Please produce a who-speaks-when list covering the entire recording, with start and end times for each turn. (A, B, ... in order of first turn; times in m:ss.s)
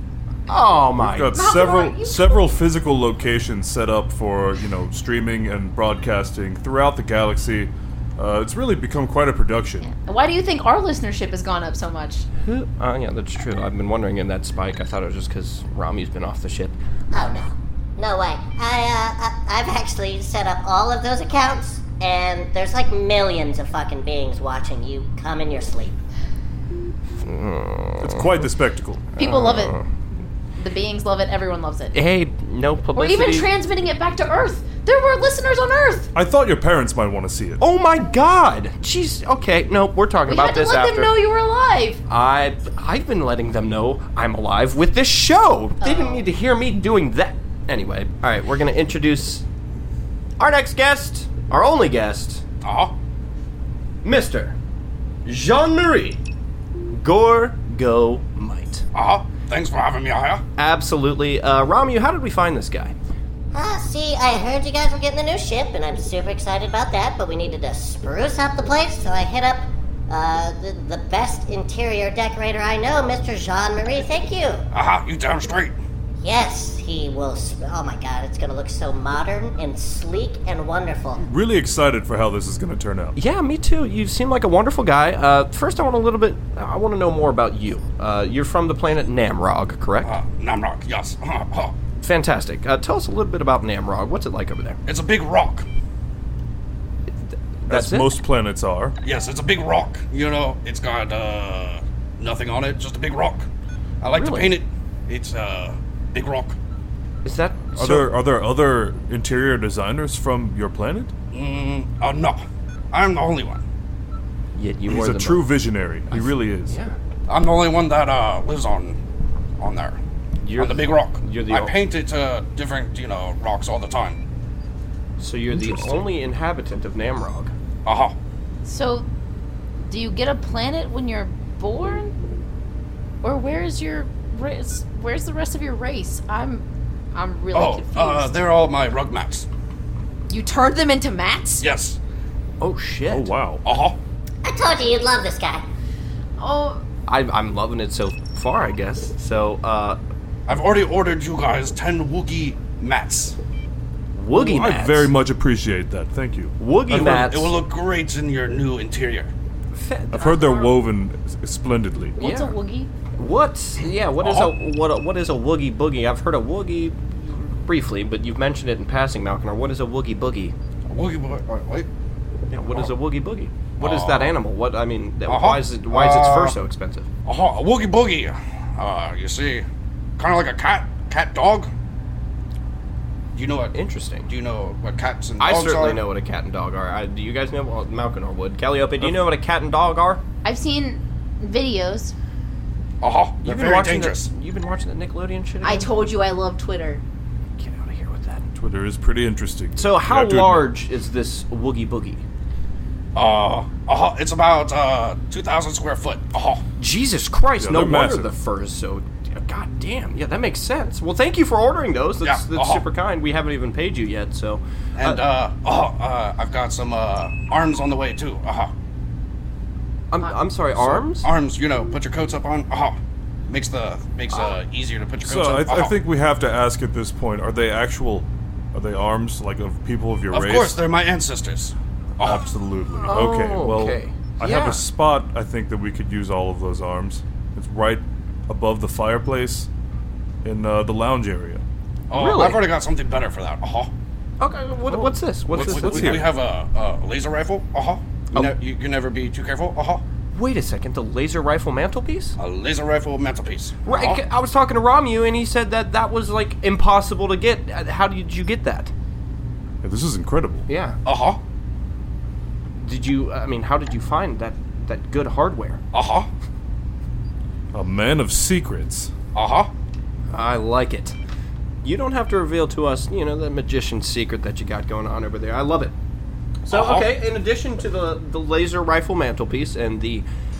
0:00.5-0:01.4 A
0:01.0-0:09.9 B
0:01.3-0:02.5 C
0:09.8-0:12.3 C
0:12.4-0:16.8 A
0:17.1-0:25.9 D
0:27.2-0:28.4 A
0:28.0-0:29.1 B
0:29.1-0:29.8 A
0:29.2-0:29.8 C
0:30.6-0:32.0 C
0:31.9-0:33.5 A
0:32.9-0:36.1 C
0:36.1-0:37.6 B
0:37.6-0:41.1 A
0:40.2-0:42.0 C
0:42.1-0:49.4 A
0:45.8-0:46.2 C
0:50.4-0:52.4 A
0:52.6-0:53.0 E
0:54.0-0:54.6 A
0:55.2-0:56.2 A
0:56.9-0:58.8 A
0:58.9-1:00.4 E
1:00.6-1:03.0 A
1:03.5-1:14.6 D
1:14.7-1:15.8 E
1:16.2-1:21.2 D
1:21.2-1:23.1 B
1:23.2-1:30.2 A
1:30.0-1:31.7 E
1:32.0-1:34.8 A
1:34.8-1:35.6 E
1:37.1-1:38.2 A
1:37.7-1:39.0 B
1:39.0-1:43.5 E
1:44.0-1:46.6 E
1:44.1-1:44.6 A
1:47.2-1:48.1 A
1:47.8-1:51.1 B
1:51.3-1:53.6 E
1:54.5-1:55.5 A
1:54.9-1:56.8 B
1:56.1-1:57.0 A
1:57.3-1:59.0 E
1:59.6-2:00.0 E
2:00.4-2:01.7 A
2:00.6-2:04.2 E
2:05.2-2:07.5 A
2:05.5-2:06.1 B
2:07.8-2:08.1 E
2:08.6-2:09.1 C
2:09.8-2:12.2 C
2:13.2-2:18.3 C
2:17.5-2:19.4 E
2:20.3-2:21.6 C
2:21.6-2:22.0 E
2:22.6-2:23.3 A
2:23.1-2:23.6 B
2:23.6-2:24.0 E
2:24.4-2:25.6 D
2:26.4-2:26.8 C
2:27.0-2:30.0 A
2:30.5-2:33.4 E
2:34.1-2:35.1 A
2:34.3-2:37.3 B
2:36.6-2:37.6 A
2:36.9-2:39.3 E
2:39.7-2:40.5 A
2:40.1-2:42.2 B
2:40.2-2:40.7 C
2:42.2-2:42.9 C
2:42.2-2:42.5 A
2:43.2-2:50.5 A
2:44.2-2:44.5 E
2:50.9-2:51.9 E
2:52.5-2:57.1 A
2:53.8-2:54.4 E
2:55.3-2:56.6 E
2:57.2-2:59.6 E
3:00.2-3:01.7 E
3:03.3-3:03.8 E
3:03.7-3:04.3 A
3:04.3-3:06.0 E
3:05.4-3:10.2 A
3:09.0-3:09.2 B
3:10.4-3:12.1 C
3:13.0-3:14.3 E
3:13.4-3:15.9 A
3:15.6-3:17.0 C
3:17.6-3:18.5 A
3:18.5-3:20.7 B
3:19.8-3:22.2 A
3:23.1-3:26.6 E
3:26.8-3:35.2 A
3:27.6-3:28.3 B
3:32.2-3:32.8 E
3:35.0-3:38.7 E
3:40.1-3:41.3 A
3:40.9-3:43.0 E
3:43.5-3:46.0 E
3:45.2-3:50.8 B
3:50.3-3:52.5 E
3:52.2-3:59.7 B
3:53.0-3:54.8 A
4:00.4-4:01.6 B
4:02.1-4:03.9 E
4:02.1-4:02.6 A
4:04.4-4:06.2 A
4:04.9-4:06.3 B
4:05.5-4:10.0 E
4:10.3-4:12.4 A
4:12.4-4:14.2 E
4:13.8-4:18.9 A
4:19.8-4:20.6 B
4:20.7-4:21.0 A
4:21.0-4:21.4 E
4:22.7-4:25.8 A
4:25.9-4:26.3 E
4:27.7-4:29.1 B
4:29.3-4:29.7 E
4:30.3-4:31.2 A
4:31.8-4:35.9 A
4:36.7-4:37.1 E
4:36.7-4:40.2 A